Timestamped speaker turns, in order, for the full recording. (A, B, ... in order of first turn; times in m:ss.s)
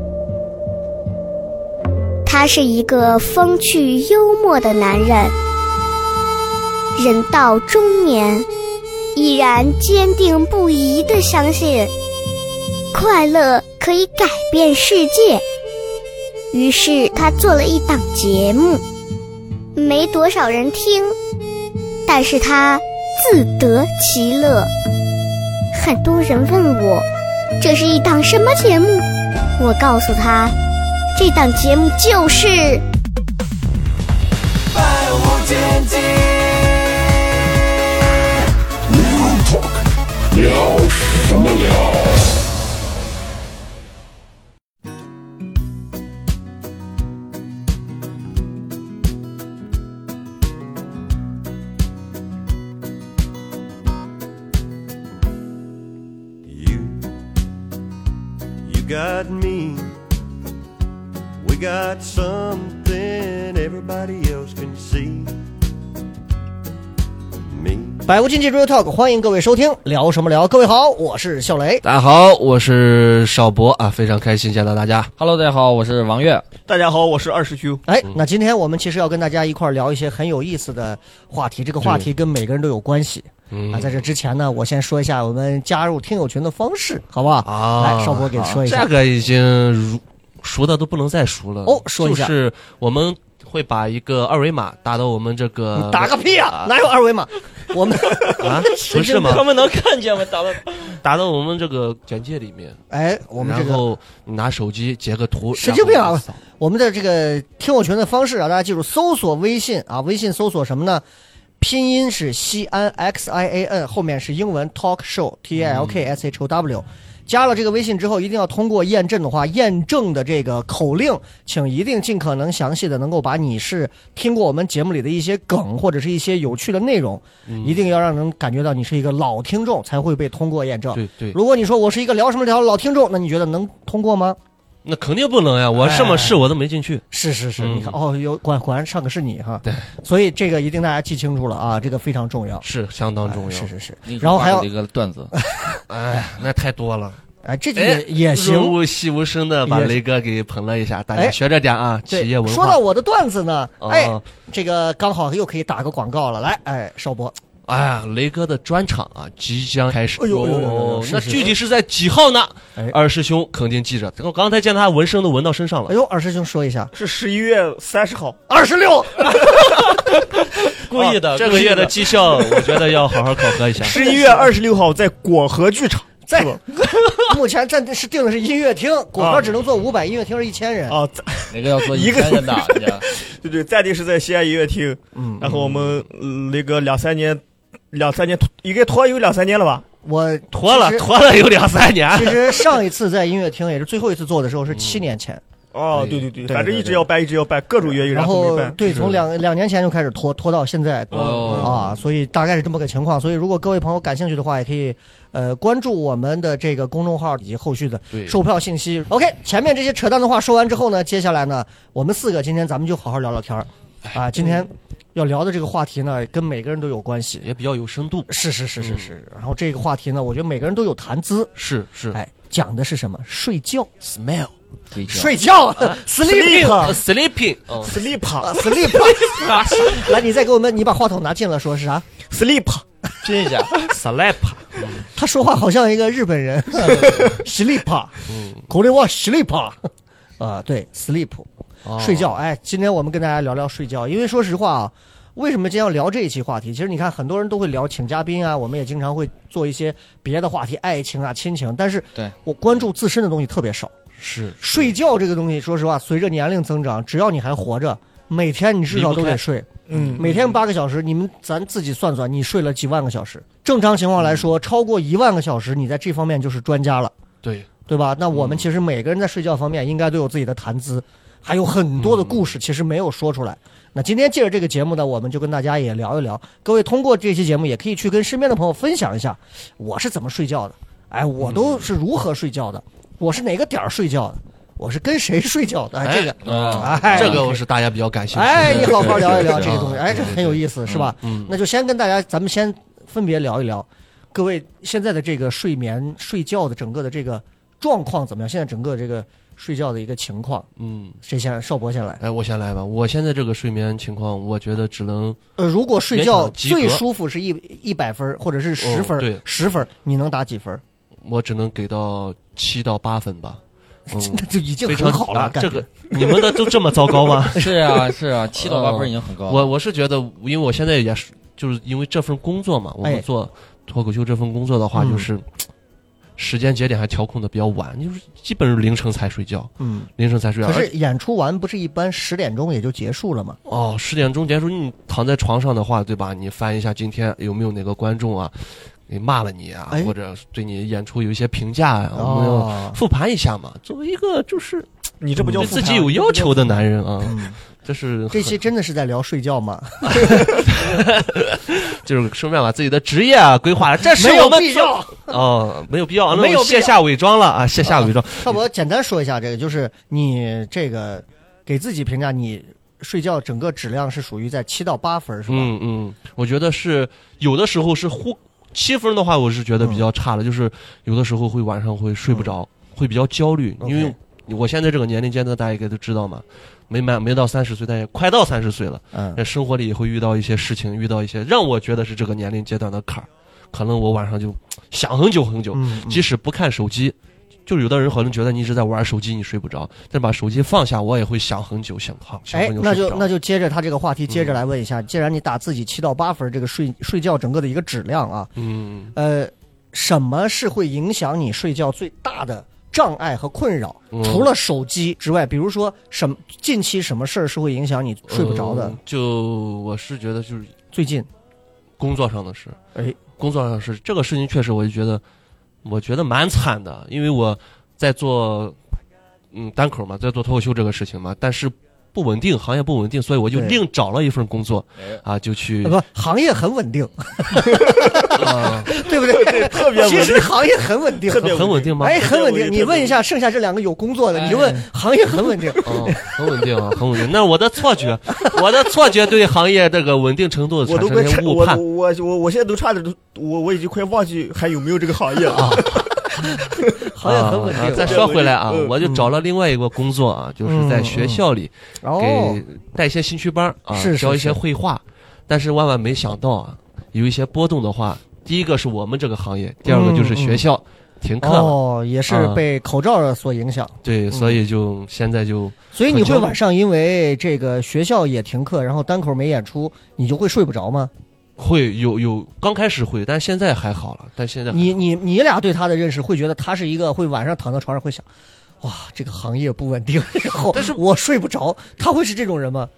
0:02.2-0:05.4 A
0:07.0-0:08.5 A
0:09.2-0:11.9 A
0:12.9-0:15.4 A
0:16.5-0:18.8 A
0:19.8-0:21.2 A
0:22.1-0:24.7 A
0:25.7-0:27.0 A
0:27.6-0:29.1 A
0:29.6-0:30.5 A
0:31.2-0:32.8 A
0:35.4-0:36.2 A
0:40.7-0:41.5 B
0:56.5-0:57.2 B
0:58.6-1:00.0 B
1:01.4-1:05.4 B
1:07.5-1:08.1 B
1:08.1-1:11.8 C
1:11.8-1:15.1 D
1:15.2-1:16.4 E
1:16.7-1:17.8 F
1:17.9-1:28.9 C
1:21.8-1:22.1 D
1:23.5-1:24.0 D
1:27.4-1:36.7 D
1:31.7-1:32.3 C
1:35.8-1:39.4 C
1:38.4-1:39.5 D
1:39.1-1:41.0 E
1:41.0-1:42.8 D
1:42.9-1:43.9 C
1:43.4-1:46.4 D
1:45.6-1:51.0 C
1:51.6-2:14.4 C
1:55.6-1:56.0 D
2:07.5-2:07.8 D
2:10.9-2:11.4 D
2:14.8-2:17.0 D
2:15.8-2:16.4 C
2:17.1-2:22.6 C
2:17.6-2:18.0 D
2:22.6-2:23.7 D
2:23.3-2:24.7 C
2:24.1-2:25.3 E
2:25.4-2:25.8 C
2:25.9-2:27.2 D
2:27.4-2:28.8 C
2:27.8-2:32.8 D
2:29.7-2:30.0 C
2:32.1-2:37.4 C
2:33.8-2:34.2 D
2:37.7-2:45.9 D
2:40.2-2:41.6 C
2:40.4-2:40.9 F
2:45.9-2:46.9 C
2:47.0-2:48.4 F
2:48.5-2:49.5 C
2:49.8-2:52.1 E
2:50.9-2:51.3 F
2:51.3-2:54.0 D
2:53.8-2:56.6 F
2:53.9-2:54.5 C
2:56.3-2:56.6 C
2:56.8-2:57.2 E
2:57.2-3:01.0 C
2:59.2-2:59.5 F
3:00.9-3:09.8 F
3:01.5-3:03.1 E
3:05.1-3:05.6 C
3:05.4-3:06.1 D
3:10.0-3:11.1 C
3:10.5-3:12.8 D
3:12.1-3:15.4 C
3:14.7-3:15.0 D
3:15.7-3:18.8 F
3:15.9-3:16.3 D
3:16.5-3:17.1 C
3:17.9-3:37.5 C
3:18.8-3:19.3 D
3:21.1-3:22.0 E
3:21.2-3:21.7 F
3:28.1-3:28.4 D
3:37.4-3:39.1 D
3:38.3-3:41.5 C
3:41.6-3:42.2 D
3:42.1-3:43.9 C
3:44.0-3:44.5 D
3:44.9-3:45.4 E
3:45.1-3:47.0 C
3:46.2-3:47.0 F
3:46.8-3:48.1 D
3:47.8-3:50.0 F
3:48.4-3:52.0 C
3:52.3-3:52.8 F
3:53.2-3:53.8 E
3:53.8-3:55.1 D
3:55.1-4:13.9 C
3:58.3-3:58.7 D
4:01.8-4:02.4 D
4:14.2-4:14.9 D
4:14.6-4:27.1 C
4:18.9-4:20.6 D
4:19.9-4:20.2 F
4:24.2-4:24.5 D
4:27.4-4:27.7 D
4:27.9-4:47.6 C
4:28.3-4:28.7 D
4:32.0-4:32.5 D
4:41.4-4:41.9 D
4:46.0-4:51.6 D
4:46.4-4:47.5 E
4:48.3-5:00.7 C
4:48.6-4:49.8 E
5:00.8-5:01.2 D
5:01.2-5:02.2 C
5:02.2-5:05.4 D
5:05.6-5:10.8 C
5:06.1-5:07.0 D
5:08.8-5:09.4 D
5:11.2-5:13.6 D
5:14.1-5:16.3 C
5:14.1-5:17.7 D
5:17.6-5:19.7 E
5:18.6-5:25.5 D
5:24.9-5:25.3 C
5:26.4-5:30.9 D
5:29.8-5:30.1 C
5:30.6-5:33.6 C
5:33.7-5:44.9 D
5:42.2-5:43.0 C
5:45.2-5:46.8 F
5:45.4-5:45.8 C
5:45.4-5:48.6 D
5:47.2-5:47.6 C
5:48.3-5:50.7 C
5:50.6-5:58.6 D
5:54.2-5:55.3 C
5:56.3-5:57.0 C
5:57.8-6:05.7 C
6:05.5-6:33.3 D
6:13.8-6:14.2 C
6:19.1-6:19.4 C
6:25.7-6:26.3 C
6:32.5-6:38.5 C
6:34.3-6:34.6 D
6:38.6-6:39.1 D
6:39.2-6:49.0 C
6:44.1-6:44.5 D
6:48.3-6:50.8 D
6:50.9-6:51.3 C
6:52.0-6:52.8 D
6:53.4-6:55.2 D
6:55.8-6:58.8 D
6:59.5-7:06.0 D
7:05.8-7:16.4 C
7:08.4-7:08.9 D
7:09.3-7:10.5 F
7:11.3-7:13.2 F
7:11.4-7:12.3 D
7:14.3-7:14.8 E
7:15.8-7:21.8 D
7:20.8-7:26.1 F
7:25.5-7:26.0 D
7:26.6-7:28.3 C
7:27.2-7:42.6 D
7:27.8-7:29.0 F
7:30.6-7:31.4 C
7:32.0-7:32.6 C
7:33.9-7:34.6 C
7:39.9-7:40.6 C
7:41.4-7:44.6 C
7:44.0-7:46.6 D
7:45.9-7:51.1 C
7:51.6-7:55.0 D
7:54.7-7:58.2 C
7:58.8-8:02.9 C
8:00.7-8:01.0 D